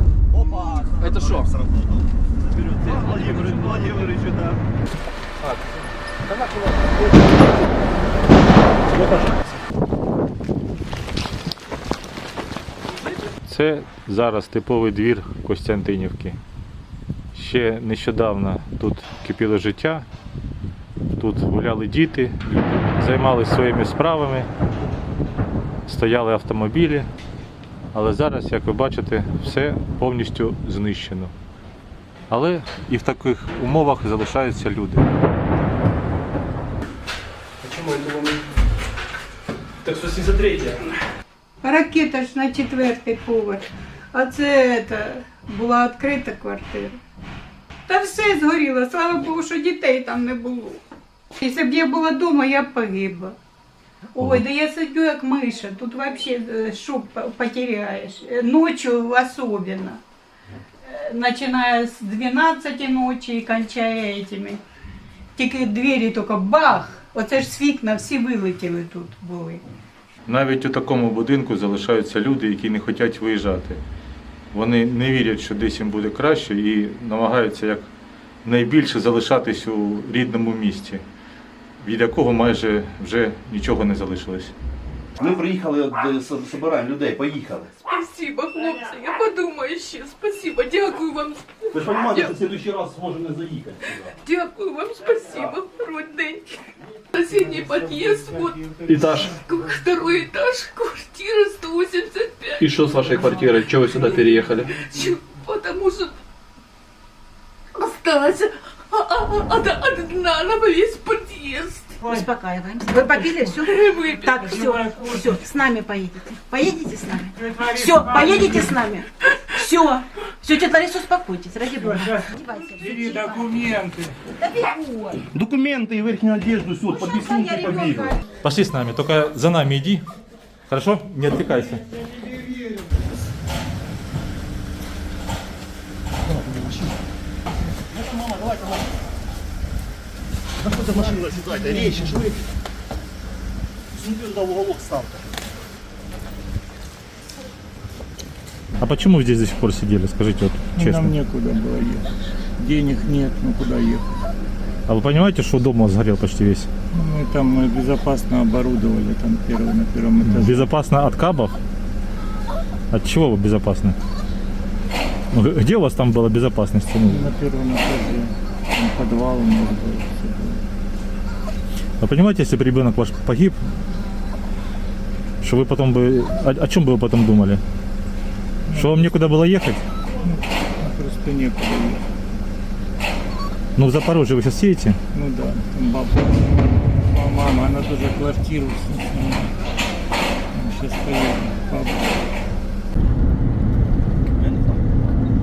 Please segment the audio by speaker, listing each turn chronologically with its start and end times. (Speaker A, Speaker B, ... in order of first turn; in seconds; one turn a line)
Speaker A: 1.0-1.5
Speaker B: 3.2-3.6
Speaker C: 13.4-16.4
Speaker C: 17.3-20.1
Speaker C: 21.2-24.5
Speaker C: 25.9-27.1
Speaker C: 27.9-31.3
Speaker C: 32.3-35.0
Speaker A: 37.6-38.4
Speaker A: 39.8-40.9
Speaker D: 41.6-47.0
Speaker D: 47.9-50.8
Speaker D: 51.4-53.4
Speaker D: 54.1-60.0
Speaker D: 60.9-64.6
Speaker D: 65.4-69.6
Speaker C: 70.2-73.8
Speaker C: 74.5-77.9
Speaker C: 78.4-81.0
Speaker C: 81.8-84.5
Speaker B: 85.2-87.7
Speaker E: 87.8-92.4
Speaker B: 91.7-94.2
Speaker E: 94.2-102.7
Speaker F: 98.8-99.4
Speaker F: 102.6-104.8
Speaker E: 104.0-106.2
Speaker E: 107.8-112.0
Speaker G: 112.0-123.4
Speaker E: 113.6-114.4
Speaker H: 114.4-115.5
Speaker H: 117.3-118.8
Speaker H: 121.8-124.2
Speaker G: 124.4-125.2
Speaker B: 125.3-128.2
Speaker G: 126.9-128.2
Speaker C: 128.4-130.0
Speaker C: 130.7-131.8
Speaker B: 140.6-142.4
Speaker H: 143.9-145.2
Speaker C: 148.8-151.1
Speaker H: 150.8-154.0
Speaker C: 154.9-156.7
Speaker H: 156.9-160.7
Speaker C: 160.2-161.6
Speaker C: 162.9-163.9
Speaker C: 165.3-167.3
Speaker H: 167.1-170.6
Speaker C: 172.0-173.6
Speaker C: 175.4-177.6
Speaker H: 178.7-179.2
Speaker C: 178.7-179.8
Speaker H: 180.2-182.0
Speaker C: 183.8-185.0
Speaker H: 185.1-189.5
Speaker H: 190.5-192.2
Speaker B: 194.4-194.7